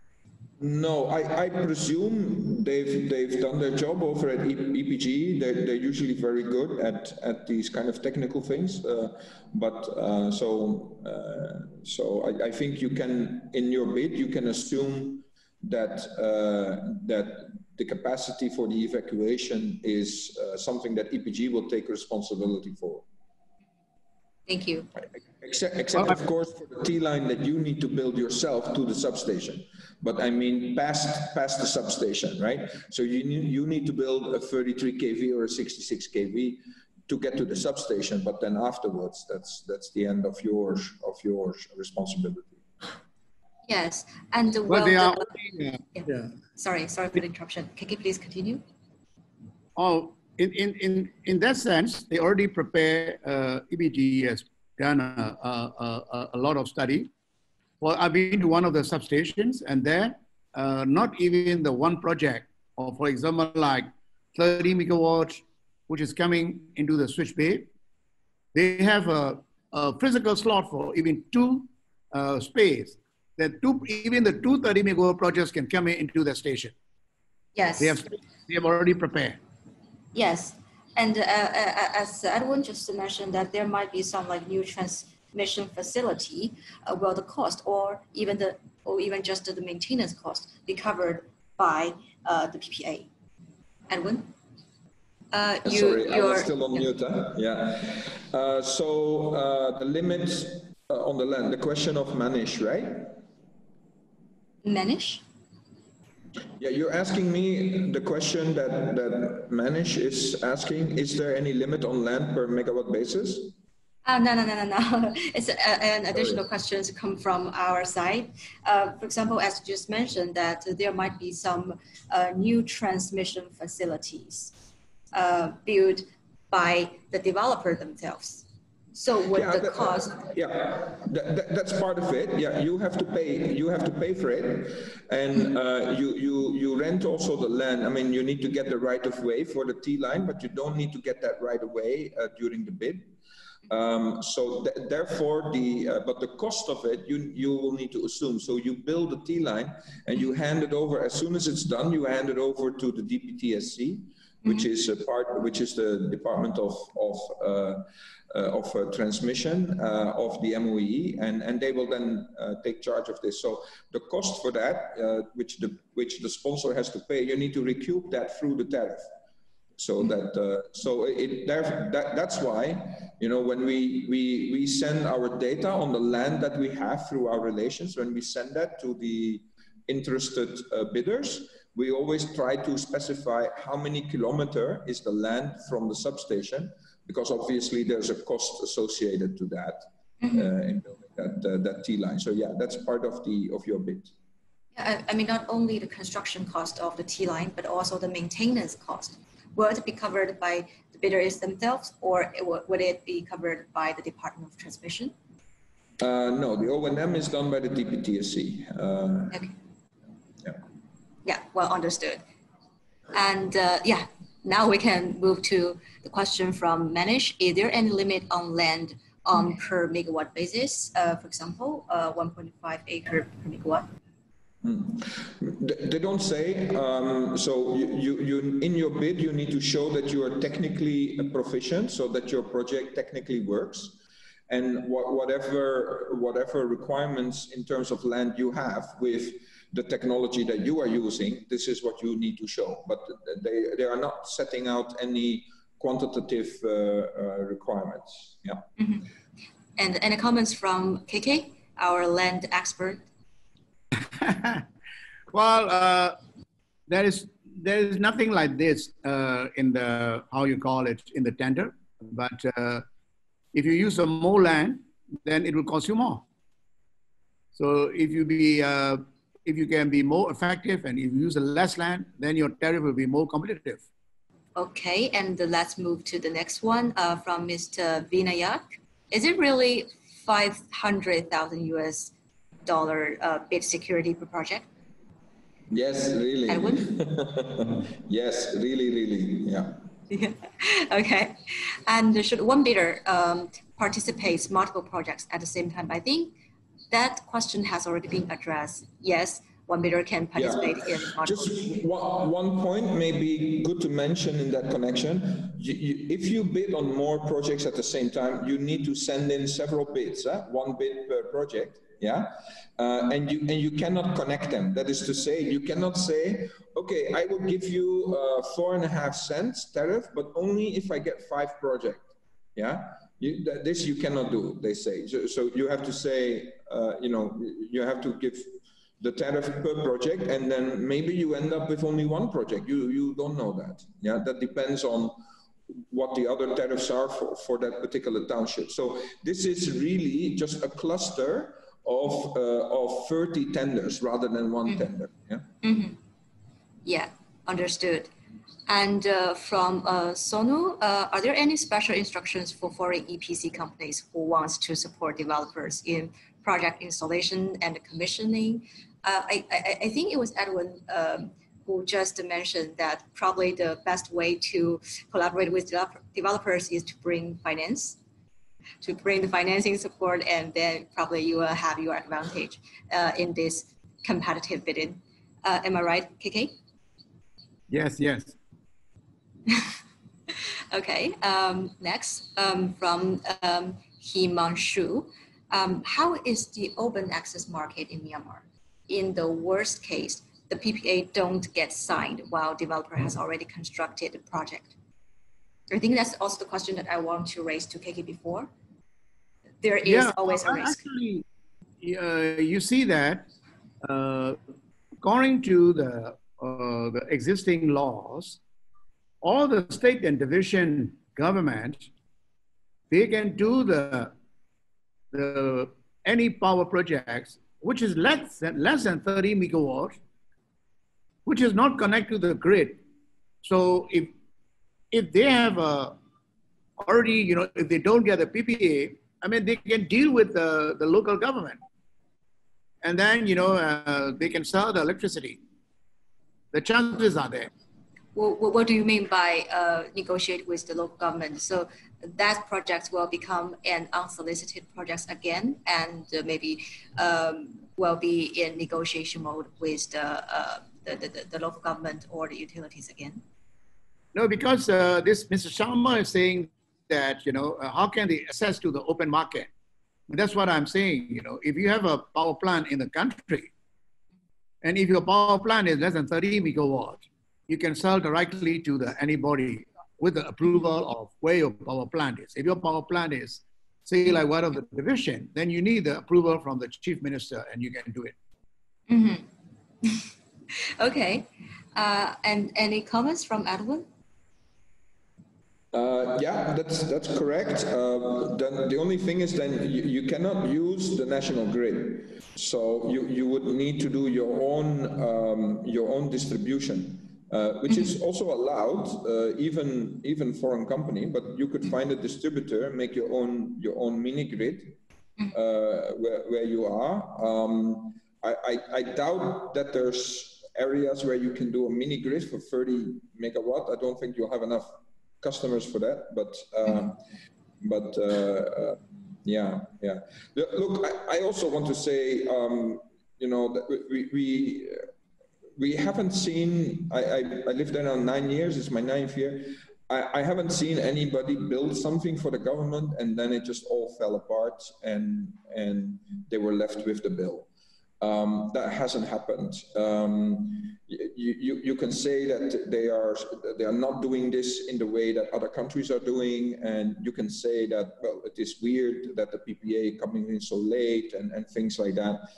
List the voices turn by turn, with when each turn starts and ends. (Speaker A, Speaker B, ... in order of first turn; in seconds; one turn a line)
Speaker A: 0.6-23.0
Speaker B: 24.5-24.9
Speaker A: 25.0-42.6
Speaker B: 43.6-45.3
Speaker C: 44.7-46.2
Speaker B: 45.9-48.6
Speaker C: 49.8-57.1
Speaker C: 57.8-67.7
Speaker C: 68.5-76.7
Speaker B: 77.5-78.0
Speaker C: 77.8-79.4
Speaker B: 80.1-93.1
Speaker B: 93.9-94.3
Speaker B: 95.3-96.8
Speaker A: 95.6-103.2
Speaker B: 104.6-105.2
Speaker A: 106.6-113.5
Speaker B: 114.0-124.5
Speaker B: 125.1-130.2
Speaker A: 129.3-143.1
Speaker A: 143.7-169.0
Speaker A: 169.8-194.1
Speaker B: 194.7-205.1
Speaker A: 206.0-209.5
Speaker B: 211.2-212.2
Speaker B: 213.1-223.9
Speaker A: 224.6-248.6
Speaker B: 248.8-249.1
Speaker B: 249.8-253.0
Speaker C: 254.2-254.6
Speaker C: 255.3-256.2
Speaker C: 256.9-262.8
Speaker C: 263.5-266.2
Speaker C: 267.5-273.8
Speaker B: 274.6-282.1
Speaker B: 282.6-284.6
Speaker A: 285.7-289.8
Speaker B: 286.5-286.9
Speaker B: 290.1-296.3
Speaker B: 296.9-301.7
Speaker A: 300.4-335.2
Speaker A: 335.7-345.4
Speaker B: 345.6-346.0
Speaker B: 346.8-348.1
Speaker B: 348.7-368.0
Speaker B: 368.8-376.5
Speaker C: 377.7-378.4
Speaker B: 380.7-394.8
Speaker B: 395.7-398.5
Speaker B: 399.6-400.8
Speaker C: 399.9-401.2
Speaker C: 401.8-403.3
Speaker C: 403.8-404.4
Speaker C: 405.0-408.4
Speaker C: 409.2-411.9
Speaker C: 412.9-414.1
Speaker C: 415.1-420.0
Speaker C: 421.2-422.8
Speaker C: 423.4-424.1
Speaker C: 424.9-425.9
Speaker C: 426.8-431.6
Speaker C: 432.8-435.4
Speaker C: 436.5-437.5
Speaker B: 438.1-453.2
Speaker C: 454.1-459.5
Speaker C: 460.1-463.5
Speaker C: 464.6-478.1
Speaker B: 478.9-479.2
Speaker B: 480.8-483.9
Speaker A: 485.7-504.8
Speaker A: 505.3-517.0
Speaker A: 517.6-524.9
Speaker A: 525.6-537.5
Speaker A: 538.0-552.2